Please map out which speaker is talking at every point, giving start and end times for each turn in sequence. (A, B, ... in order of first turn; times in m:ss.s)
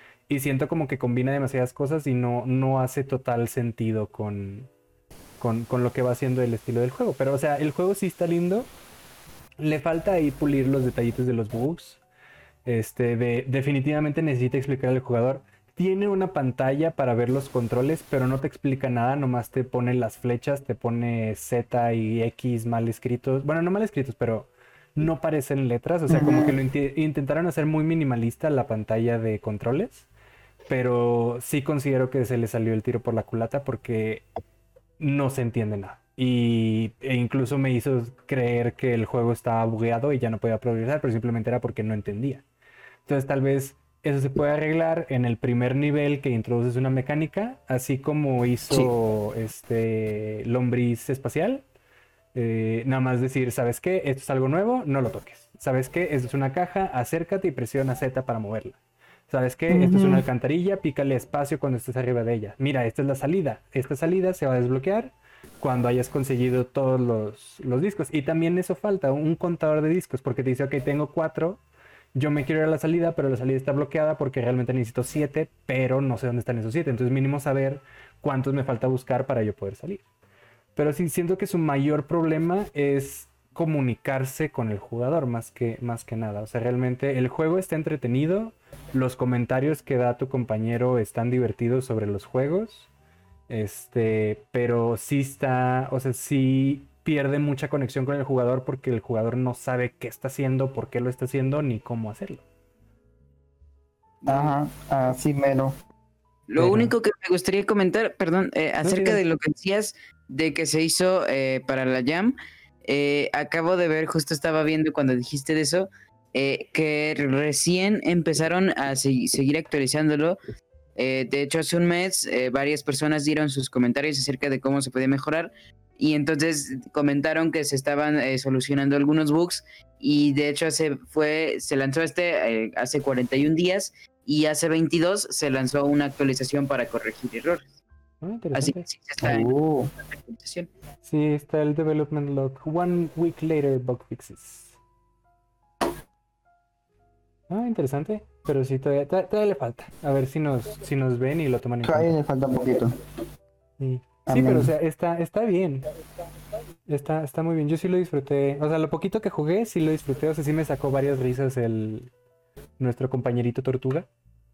0:00.3-0:04.7 A
0:05.4-0:08.7 A
0:09.6-0:12.0 A
0:12.6-0:30.1 A
0:26.1-0:26.6 B
0:30.7-0:34.2 A
0:35.0-0:42.4 A
0:43.0-0:51.6 A
0:52.3-1:11.6 A
0:59.7-1:00.3 B
1:12.2-1:20.0 A
1:20.8-1:32.9 A
1:33.5-1:42.4 A
1:44.2-1:44.6 C
1:44.3-1:45.8 B
1:46.5-2:00.4 C
1:46.6-1:46.9 A
1:48.8-1:49.2 A
2:01.0-2:17.7 C
2:18.2-2:18.8 A
2:18.5-2:19.5 C
2:19.2-2:19.9 B
2:20.1-2:20.7 C
2:21.0-2:24.8 A
2:27.5-2:32.2 A
2:31.8-2:32.9 B
2:33.8-2:35.8 A
2:34.3-2:34.7 B
2:36.9-2:42.1 A
2:42.8-2:44.1 A